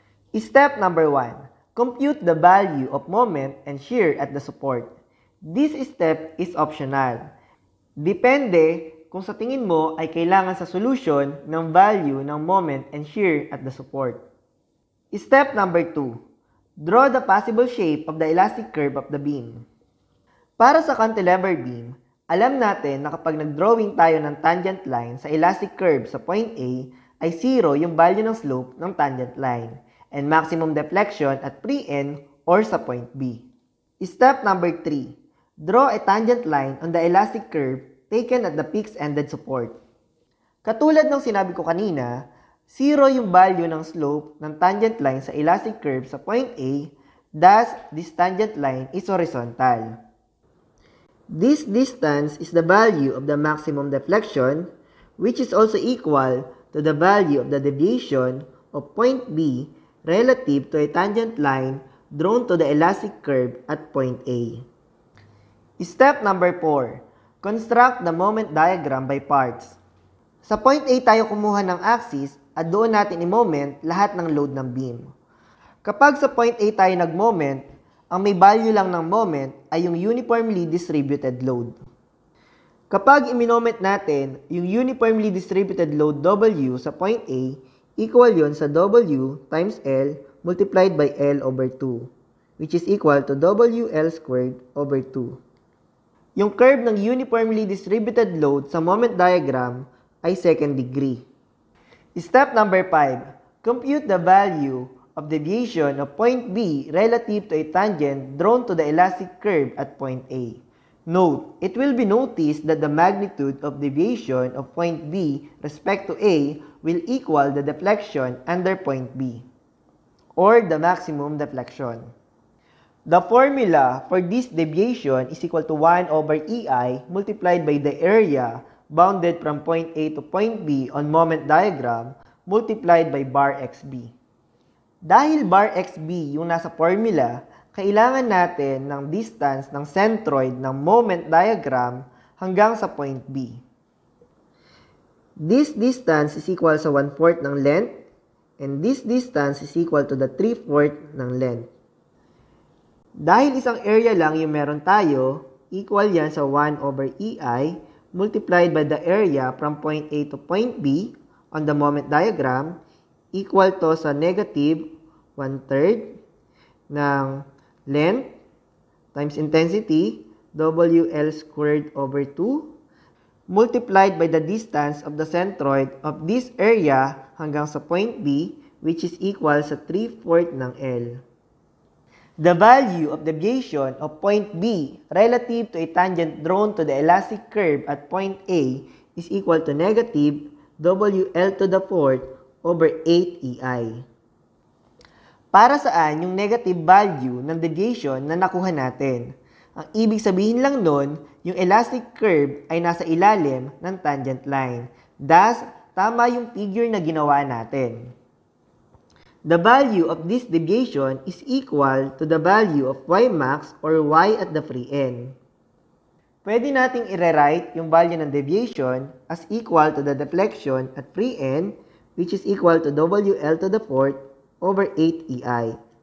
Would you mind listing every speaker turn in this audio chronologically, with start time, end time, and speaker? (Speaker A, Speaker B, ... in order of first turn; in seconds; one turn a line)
Speaker A: 0.3-4.9
Speaker A: 5.5-7.3
Speaker A: 8.0-14.2
Speaker A: 15.1-16.2
Speaker A: 16.8-19.6
Speaker A: 20.6-33.5
Speaker A: 34.0-39.8
Speaker A: 40.6-50.0
Speaker A: 51.3-64.6
Speaker A: 65.8-69.8
Speaker A: 70.4-75.1
Speaker A: 75.8-81.8
Speaker A: 82.9-95.4
Speaker A: 96.4-101.2
Speaker A: 102.2-119.5
Speaker A: 120.4-122.1
Speaker A: 123.1-134.1
Speaker A: 135.1-143.6
Speaker A: 145.4-147.9
Speaker A: 148.6-151.7
Speaker A: 153.2-162.8
Speaker A: 163.3-166.2
Speaker A: 166.9-168.3
Speaker A: 169.2-172.7
Speaker A: 173.5-181.2
Speaker A: 182.4-194.0
Speaker A: 195.5-208.1
Speaker A: 209.5-215.4
Speaker A: 216.4-225.8